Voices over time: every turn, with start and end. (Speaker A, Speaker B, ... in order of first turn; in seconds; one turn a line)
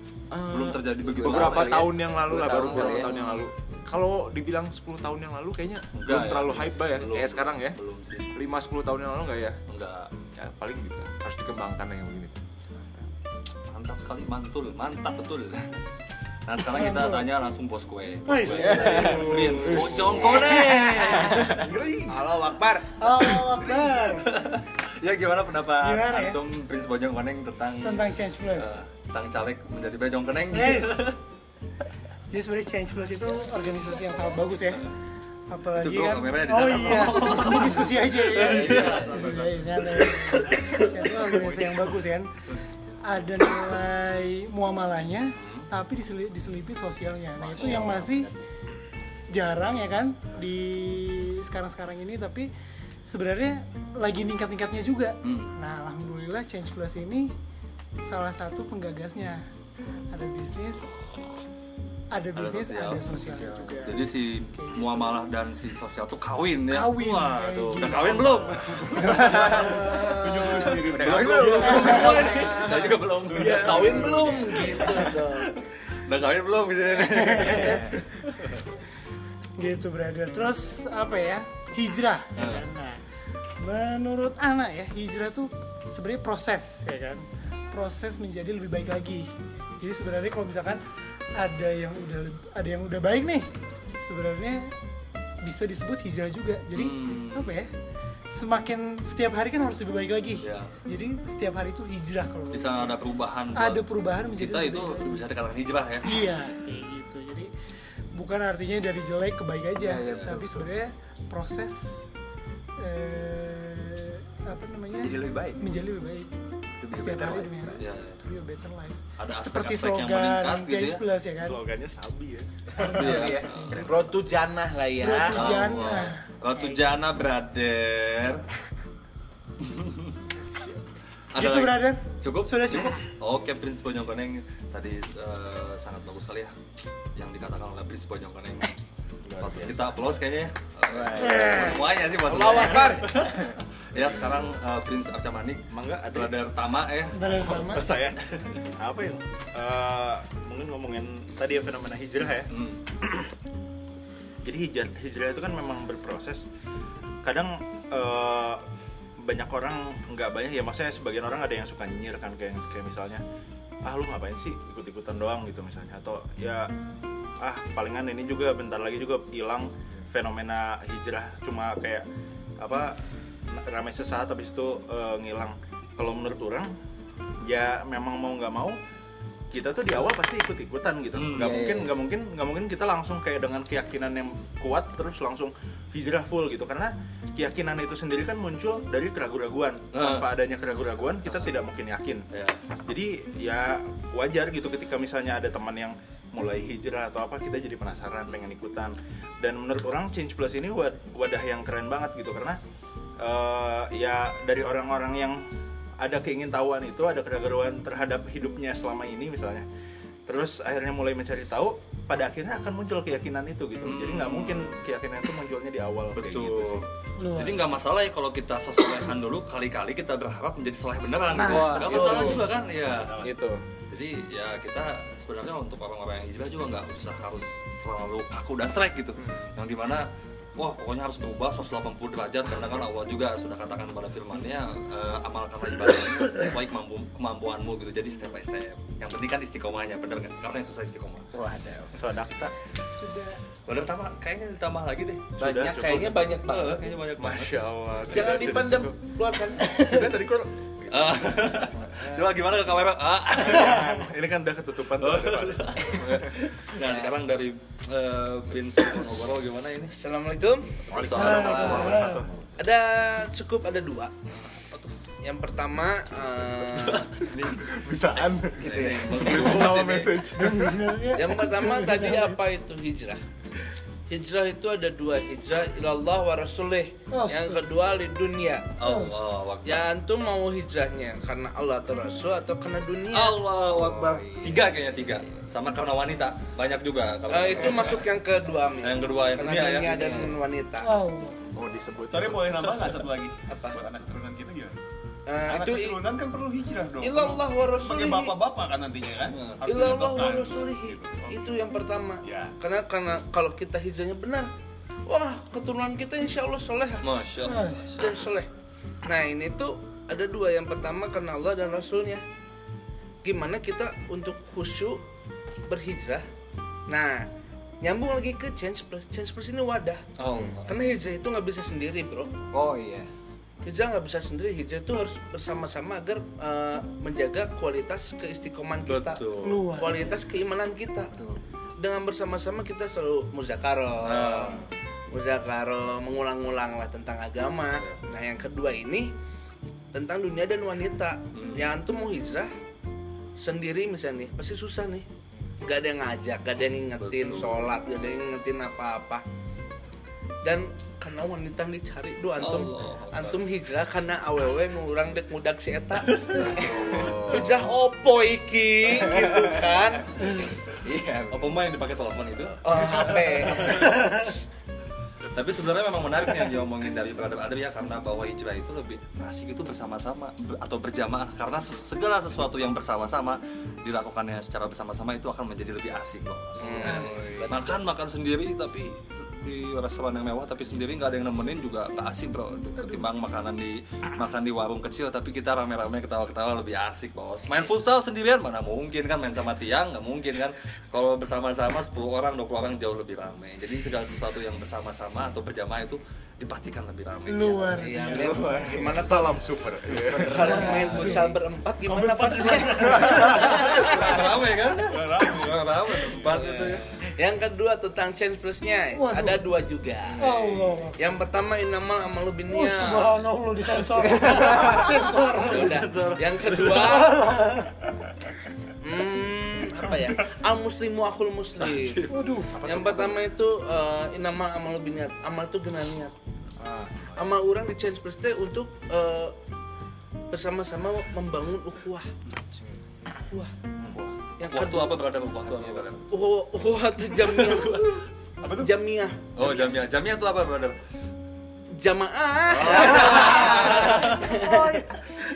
Speaker A: 0.3-7.8
Speaker B: 0.5-3.5
Speaker C: 1.0-3.1
Speaker B: 5.9-8.3
Speaker A: 8.3-9.6
Speaker B: 9.7-10.1
Speaker A: 10.4-13.0
Speaker B: 13.7-15.7
Speaker B: 16.4-21.6
Speaker D: 16.7-17.2
Speaker D: 18.3-19.7
Speaker C: 18.5-21.7
Speaker E: 21.4-22.1
Speaker F: 22.1-22.9
Speaker D: 23.0-24.3
Speaker B: 24.2-31.1
Speaker D: 25.8-26.4
Speaker D: 27.8-28.8
Speaker D: 30.5-31.1
Speaker D: 32.3-34.8
Speaker D: 35.5-42.3
Speaker B: 35.8-39.0
Speaker E: 38.5-39.7
Speaker C: 38.7-39.0
Speaker E: 41.3-41.8
Speaker D: 43.1-48.3
Speaker B: 45.4-45.7
Speaker C: 47.5-48.4
Speaker B: 47.6-48.0
Speaker D: 49.3-52.5
Speaker D: 53.1-57.3
Speaker B: 55.2-55.5
Speaker D: 58.0-59.4
Speaker D: 60.1-60.9
Speaker D: 62.1-65.2
Speaker B: 62.4-78.6
Speaker D: 66.7-70.0
Speaker C: 69.2-72.8
Speaker E: 69.5-72.8
Speaker D: 71.7-72.5
Speaker E: 73.3-74.5
Speaker F: 73.3-75.5
Speaker D: 77.1-78.0
Speaker D: 79.6-83.0
Speaker B: 82.4-82.6
Speaker D: 83.6-89.3
Speaker D: 89.8-90.8
Speaker D: 91.3-94.7
Speaker D: 95.4-97.7
Speaker B: 96.8-97.5
Speaker D: 98.3-103.0
Speaker B: 100.4-100.7
Speaker B: 102.5-106.1
Speaker D: 103.6-105.2
Speaker D: 106.0-107.5
Speaker D: 108.1-112.0
Speaker C: 109.8-110.7
Speaker B: 109.9-110.4
Speaker D: 112.8-116.3
Speaker C: 115.0-115.6
Speaker C: 116.8-117.8
Speaker B: 116.9-118.2
Speaker D: 116.9-121.6
Speaker B: 119.2-121.0
Speaker G: 121.4-123.3
Speaker C: 122.8-123.8
Speaker D: 122.8-123.8
Speaker B: 122.9-124.1
Speaker F: 123.0-125.5
Speaker D: 125.0-126.8
Speaker B: 125.3-128.4
Speaker B: 129.6-130.2
Speaker B: 131.3-136.5
Speaker D: 131.4-133.1
Speaker B: 137.2-138.8
Speaker B: 139.4-147.6
Speaker A: 139.4-139.7
Speaker D: 141.2-141.8
Speaker F: 142.2-143.2
Speaker G: 145.7-146.4
Speaker D: 147.1-147.9
Speaker G: 147.4-148.2
Speaker G: 148.8-153.3
Speaker B: 152.5-152.8
Speaker G: 154.4-156.4
Speaker G: 157.2-158.6
Speaker G: 159.2-163.2
Speaker G: 163.8-166.7
Speaker G: 167.4-172.1
Speaker G: 172.6-173.0
Speaker G: 173.5-176.7
Speaker G: 177.4-178.8
Speaker G: 179.5-192.2
Speaker B: 181.1-181.6
Speaker C: 181.3-182.0
Speaker B: 189.9-190.3
Speaker B: 191.2-191.6
Speaker B: 192.3-192.6
Speaker G: 192.9-202.6
Speaker G: 203.2-205.4
Speaker G: 206.0-209.7
Speaker G: 210.3-216.9
Speaker B: 213.8-214.8
Speaker B: 216.1-223.2
Speaker D: 217.2-217.7
Speaker D: 221.3-222.4
Speaker G: 221.4-222.5
Speaker G: 223.2-223.6
Speaker B: 223.9-230.1
Speaker B: 230.6-241.4
Speaker G: 241.4-242.5
Speaker D: 243.0-243.3
Speaker B: 243.7-245.4
Speaker G: 245.4-246.4
Speaker F: 245.4-246.9
Speaker B: 246.4-247.5
Speaker G: 247.2-249.0
Speaker F: 248.1-250.2
Speaker B: 248.1-248.4
Speaker G: 249.8-252.2
Speaker B: 250.9-254.0
Speaker G: 253.5-256.2
Speaker B: 255.0-259.9
Speaker F: 256.8-257.1
Speaker F: 259.9-261.0
Speaker B: 260.9-262.2
Speaker G: 260.9-262.3
Speaker D: 261.1-262.2
Speaker F: 262.6-264.1
Speaker F: 265.2-267.1
Speaker B: 266.9-267.6
Speaker A: 267.8-270.7
Speaker B: 268.1-270.2
Speaker G: 268.7-270.2
Speaker D: 270.3-272.4
Speaker F: 271.1-273.2
Speaker F: 274.1-278.7
Speaker D: 277.1-277.6
Speaker B: 278.8-279.9
Speaker D: 278.8-279.2
Speaker F: 279.6-283.4
Speaker B: 283.1-288.1
Speaker C: 283.7-284.8
Speaker F: 287.3-290.9
Speaker B: 288.8-290.4
Speaker D: 290.8-291.4
Speaker G: 291.6-293.0
Speaker E: 292.1-294.8
Speaker F: 293.5-293.8
Speaker F: 295.3-296.0
Speaker E: 295.5-301.5
Speaker F: 297.0-298.4
Speaker B: 299.3-299.6
Speaker F: 299.6-304.5
Speaker E: 302.2-302.5
Speaker F: 305.1-307.3
Speaker B: 307.0-308.2
Speaker D: 307.4-307.9
Speaker F: 307.9-308.5
Speaker F: 309.0-312.2
Speaker F: 313.2-315.0
Speaker F: 315.7-316.2
Speaker F: 316.9-317.3
Speaker F: 317.8-320.1
Speaker B: 320.2-320.7
Speaker C: 320.3-320.6
Speaker F: 320.6-322.3
Speaker C: 322.5-323.1
Speaker F: 323.6-331.1
Speaker B: 328.9-329.7
Speaker D: 329.4-330.0
Speaker F: 331.8-339.1
Speaker B: 334.0-334.7
Speaker B: 337.7-338.0
Speaker F: 339.9-342.5
Speaker B: 341.3-341.7
Speaker F: 343.4-345.1
Speaker F: 345.6-349.2
Speaker B: 346.7-347.8
Speaker F: 350.4-360.4
Speaker B: 352.4-353.5
Speaker B: 356.0-357.7
Speaker C: 360.8-361.6
Speaker B: 361.3-364.1
Speaker F: 362.6-364.2
Speaker B: 365.3-399.2
Speaker F: 376.6-377.8
Speaker D: 376.9-377.2
Speaker D: 397.3-398.3
Speaker F: 397.8-404.3
Speaker G: 398.5-400.5
Speaker B: 399.9-401.4
Speaker D: 400.4-401.2
Speaker D: 402.3-403.3
Speaker B: 402.4-406.9
Speaker E: 404.8-406.7
Speaker F: 407.1-410.2
Speaker D: 408.9-409.4
Speaker B: 410.2-410.6
Speaker D: 410.2-411.0
Speaker F: 411.0-413.1
Speaker D: 412.5-415.7
Speaker B: 414.1-414.8
Speaker F: 415.4-417.3
Speaker B: 415.4-417.6
Speaker F: 418.8-422.0
Speaker B: 421.6-423.2
Speaker D: 422.1-422.6
Speaker F: 422.6-426.2
Speaker F: 427.1-429.4
Speaker F: 430.3-432.1
Speaker F: 433.1-433.5
Speaker B: 433.9-436.1
Speaker F: 434.4-435.0
Speaker F: 435.6-439.3
Speaker B: 437.2-437.9
Speaker E: 438.4-438.7
Speaker B: 439.4-440.8
Speaker F: 441.8-444.8
Speaker B: 442.5-444.3